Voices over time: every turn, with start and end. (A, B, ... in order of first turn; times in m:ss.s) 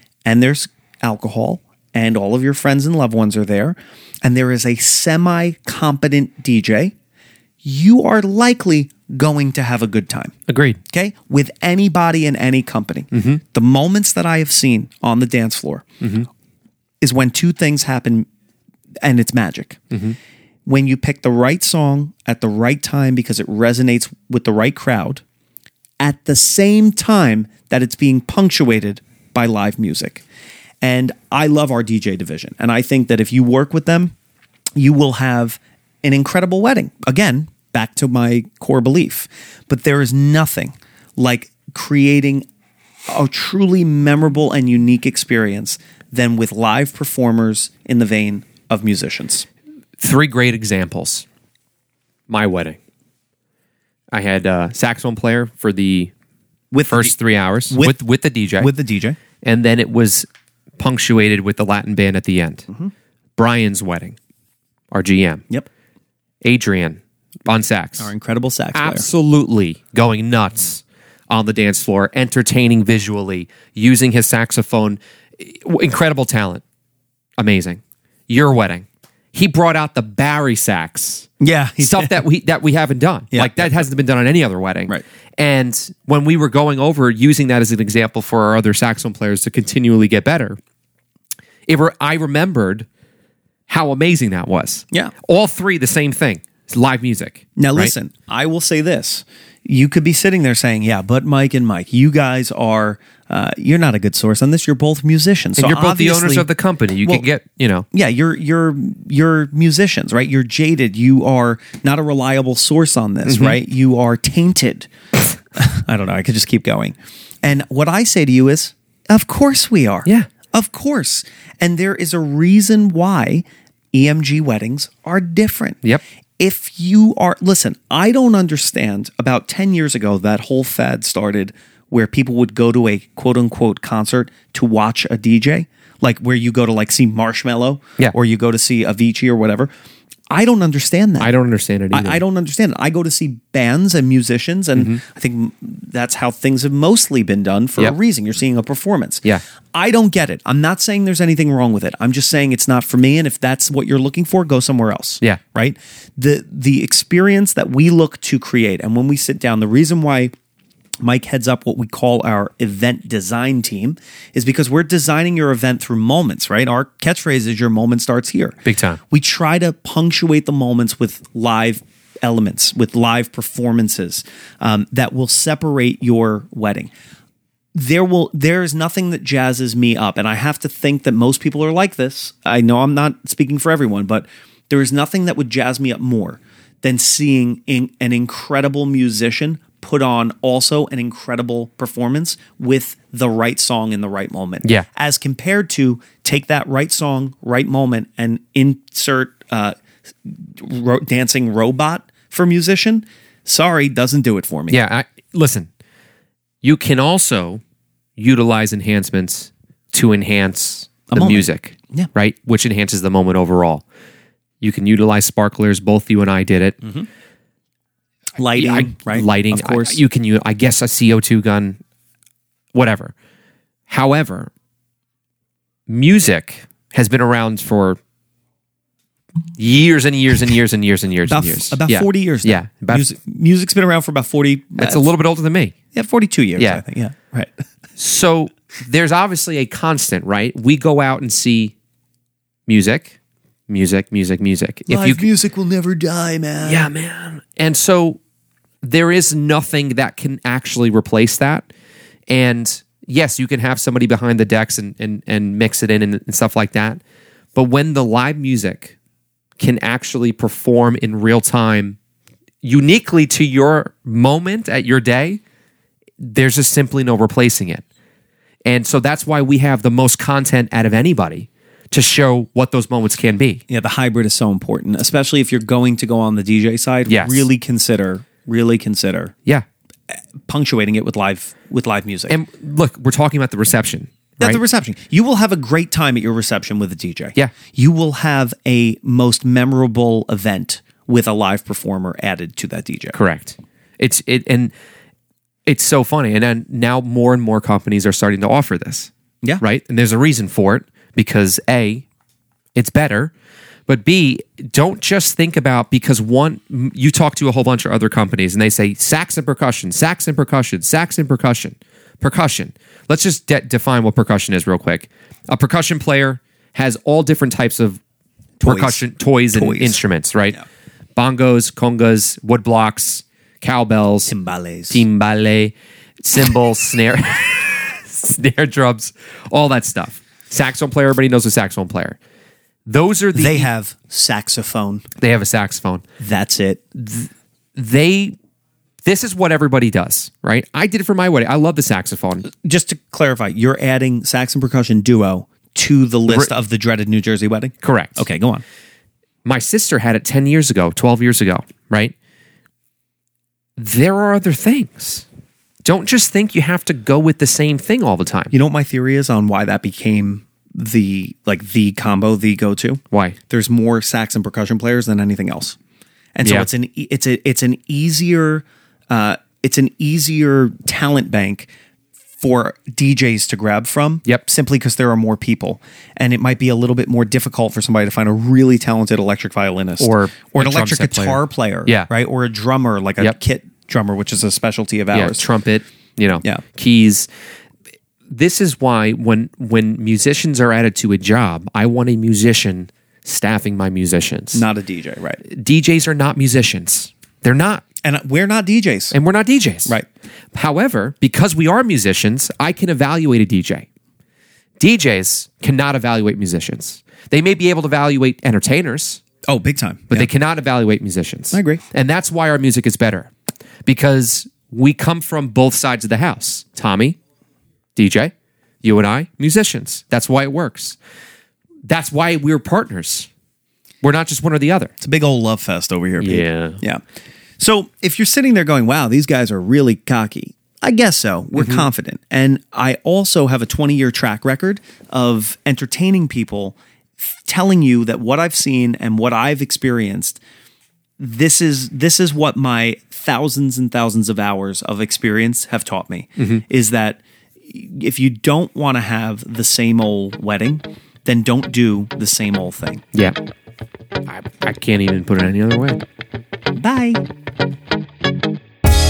0:00.2-0:06.9 A
0:07.6-0:10.3 A
0:10.5-0:10.8 B
0:10.9-0:15.8 A
0:13.1-0:13.4 B
0:16.0-0:16.3 B
0:17.0-0:18.3 A
0:19.0-0:19.8 A
0:19.9-0:20.2 B
0:20.7-0:25.2 A
0:26.0-0:30.2 A
0:30.8-0:34.1 A
0:34.8-0:42.5 A
0:43.1-0:49.5 A
0:50.0-0:51.3 B
0:52.3-0:52.8 B
0:54.1-0:56.1 B
0:56.7-0:57.1 A
0:56.9-0:58.7 B
0:57.7-0:58.0 A
0:58.6-0:59.2 A
0:59.4-1:00.3 B
1:00.8-1:02.7 B
1:03.4-1:04.2 B
1:04.9-1:05.4 B
1:06.4-1:08.1 B
1:08.0-1:09.0 A
1:08.7-1:16.6 B
1:17.4-1:21.3 B
1:21.4-1:22.2 A
1:21.8-1:30.6 B
1:23.3-1:23.8 A
1:31.7-1:32.8 B
1:33.7-1:37.9 B
1:37.6-1:46.5 A
1:45.6-1:47.9 B
1:47.9-1:54.9 A
1:53.3-1:53.6 B
1:55.5-2:05.8 A
2:06.4-2:19.7 A
2:20.3-2:21.3 A
2:21.2-2:22.2 B
2:21.9-2:29.2 A
2:29.7-2:40.3 A
2:41.0-2:48.6 A
2:48.6-2:49.0 B
2:49.1-2:56.9 A
2:57.7-3:24.8 A
3:24.7-3:25.7 B
3:26.6-3:27.6 B
3:28.2-3:33.8 B
3:31.1-3:32.1 A
3:34.6-3:36.8 B
3:38.4-3:40.0 A
3:38.6-3:41.8 B
3:42.7-3:43.1 B
3:43.9-3:44.5 B
3:45.9-3:48.0 B
3:49.6-3:53.0 B
3:51.3-3:55.0 A
3:54.8-3:55.7 B
3:55.9-3:57.5 A
3:56.6-3:56.8 B
3:58.0-4:01.7 B
4:02.7-4:03.1 B
4:03.7-4:05.3 B
4:04.9-4:06.9 A
4:06.6-4:08.2 B
4:08.8-4:11.7 B
4:12.3-4:17.0 B
4:17.6-4:19.0 B
4:19.6-4:22.0 B
4:22.6-4:25.4 B
4:26.2-4:27.8 B
4:28.6-4:33.6 B
4:33.7-4:39.3 A
4:37.1-4:37.5 B
4:40.5-4:42.4 A
4:42.3-4:44.6 B
4:44.4-4:53.2 A
4:53.1-4:54.7 B
4:55.6-5:02.0 B
5:02.8-5:03.3 B
5:03.9-5:18.0 B
5:18.6-5:20.0 A
5:18.6-5:20.6 B
5:21.2-5:24.3 B
5:24.3-5:25.0 A
5:24.9-5:32.2 B
5:32.9-5:33.7 B
5:33.3-5:35.0 A
5:35.2-5:36.0 B
5:36.2-5:36.8 A
5:37.0-5:38.4 B
5:39.0-5:42.5 B
5:42.5-5:48.6 A
5:47.8-5:48.2 B
5:49.4-5:52.1 B
5:53.8-5:55.2 B
5:55.8-5:58.5 B
5:58.5-6:05.8 A
6:03.1-6:03.4 B
6:06.4-6:11.7 A
6:12.4-6:25.5 A
6:20.0-6:22.1 B
6:25.1-6:27.3 B
6:28.3-6:34.6 B
6:34.5-6:35.4 A
6:35.4-6:37.8 B
6:38.0-6:39.1 A
6:39.1-6:40.0 B
6:40.5-6:43.8 B
6:44.8-6:49.2 B
6:49.5-6:50.3 A
6:50.1-6:53.3 B
6:51.5-6:51.8 A
6:53.8-6:57.2 B
6:58.0-6:58.3 B
6:58.8-7:01.0 B
7:01.9-7:03.3 B
7:04.0-7:04.9 B
7:05.0-7:07.0 A
7:06.2-7:06.8 B
7:07.6-7:20.4 A
7:11.6-7:11.9 B
7:21.2-7:33.0 A
7:26.4-7:26.6 B
7:34.3-7:36.0 B
7:36.8-7:37.2 A